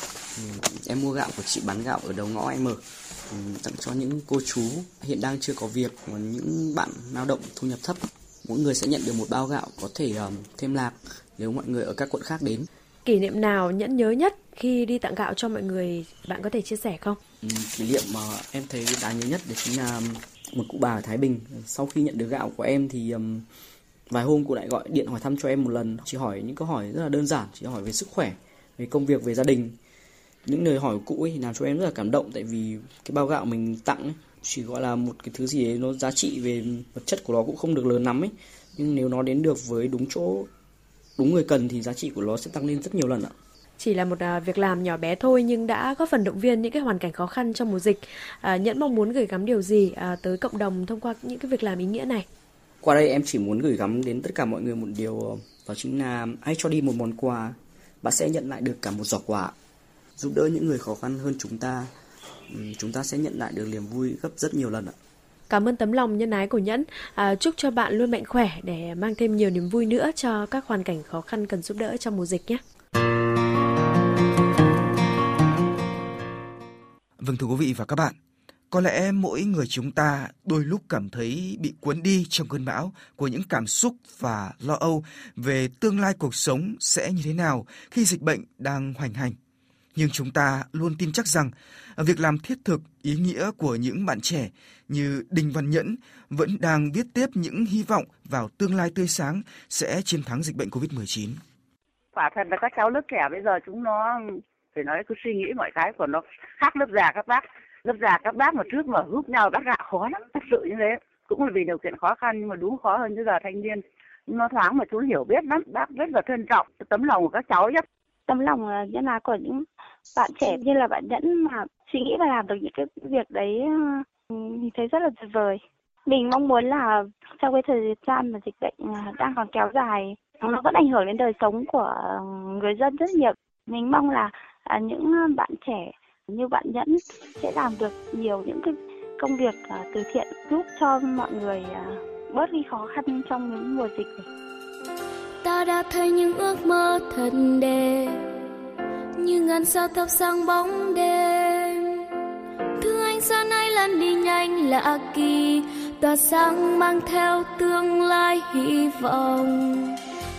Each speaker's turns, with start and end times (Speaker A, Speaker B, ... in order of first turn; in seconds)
Speaker A: 0.3-12.7, 17.4-23.4, 24.1-29.8, 30.4-40.5, 41.2-43.3, 52.8-59.5, 60.2-61.9, 62.5-65.0
Speaker B: 13.0-17.2, 43.8-52.2, 65.5-72.6
Speaker C: 77.2-78.1, 78.7-89.3, 89.9-101.4
Speaker D: 102.1-117.8
Speaker E: 118.3-119.6, 120.2-144.2
Speaker F: 145.4-148.2, 149.2-151.8, 152.8-160.0